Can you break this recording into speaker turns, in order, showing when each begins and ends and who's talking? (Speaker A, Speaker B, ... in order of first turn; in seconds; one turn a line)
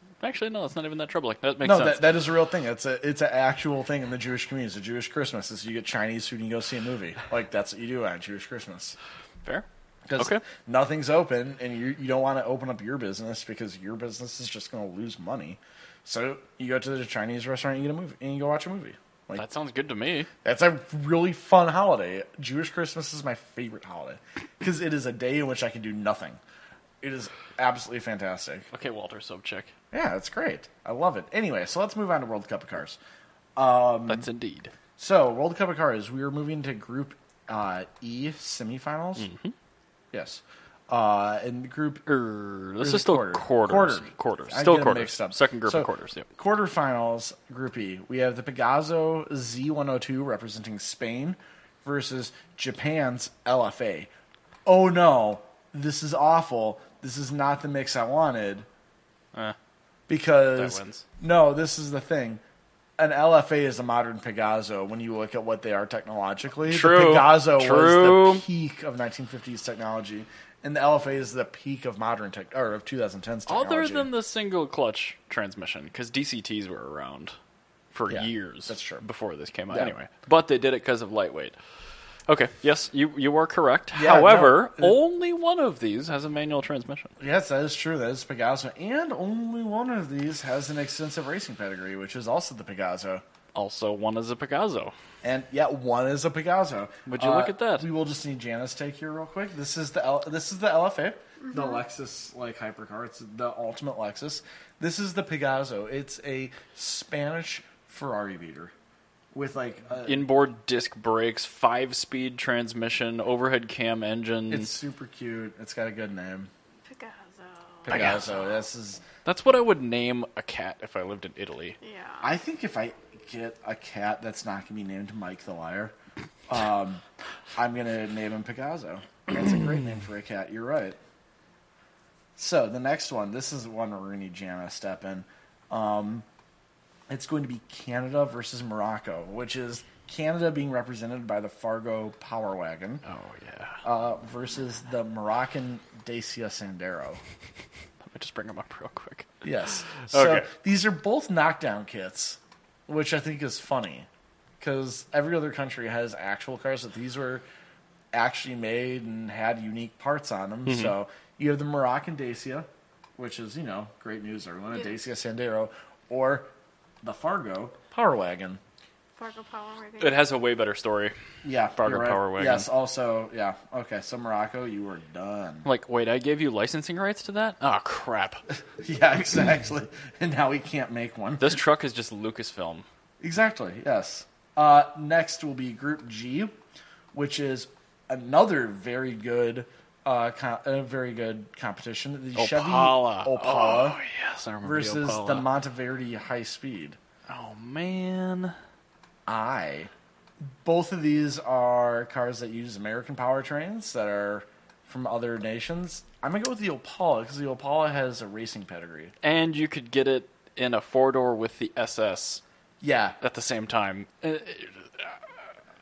Speaker A: 0.2-2.1
Speaker B: 1.6-9.0
Speaker B: 10.1-19.4
Speaker A: 10.2-10.4
Speaker A: 19.4-20.3
Speaker B: 20.4-26.4
Speaker B: 27.0-28.7
Speaker A: 28.7-29.7
Speaker B: 29.9-33.0
Speaker B: 33.6-34.3
Speaker A: 34.1-34.7
Speaker B: 35.0-39.3
Speaker A: 39.2-39.5
Speaker B: 40.1-42.0
Speaker A: 42.1-46.3
Speaker B: 42.8-54.1
Speaker B: 54.7-58.7
Speaker B: 60.1-62.4
Speaker A: 60.6-61.0
Speaker B: 63.0-74.1
Speaker A: 66.7-68.4
Speaker A: 73.5-77.3
Speaker A: 77.9-81.6
Speaker B: 78.1-79.0
Speaker A: 82.3-87.1
Speaker B: 83.9-85.0
Speaker B: 87.2-93.2
Speaker A: 93.5-94.9
Speaker B: 95.2-108.7
Speaker A: 97.1-97.9
Speaker C: 101.4-101.8
Speaker B: 109.3-110.3
Speaker A: 110.1-114.7
Speaker B: 114.5-116.5
Speaker C: 116.9-118.0
Speaker A: 117.9-118.4
Speaker B: 117.9-119.0
Speaker A: 119.2-121.8
Speaker C: 121.8-122.3
Speaker B: 122.2-125.9
Speaker B: 126.5-127.0
Speaker B: 127.6-131.0
Speaker B: 132.4-136.3
Speaker B: 137.1-143.0
Speaker A: 143.1-143.8
Speaker B: 143.8-147.2
Speaker A: 148.0-149.3
Speaker B: 149.4-154.1
Speaker A: 150.0-150.5
Speaker B: 154.6-157.4
Speaker B: 158.1-166.5
Speaker A: 160.7-160.9
Speaker B: 167.0-168.6
Speaker C: 169.2-170.3
Speaker A: 170.0-171.2
Speaker B: 171.4-175.7
Speaker A: 171.8-172.7
Speaker A: 175.7-178.4
Speaker B: 178.8-181.6
Speaker A: 181.4-182.9
Speaker B: 183.2-186.5
Speaker B: 187.1-194.0
Speaker A: 192.3-195.5
Speaker B: 194.6-197.0
Speaker A: 197.3-198.6
Speaker B: 199.3-199.9
Speaker B: 200.6-209.1
Speaker A: 209.2-212.4
Speaker B: 212.8-213.2
Speaker A: 213.2-215.2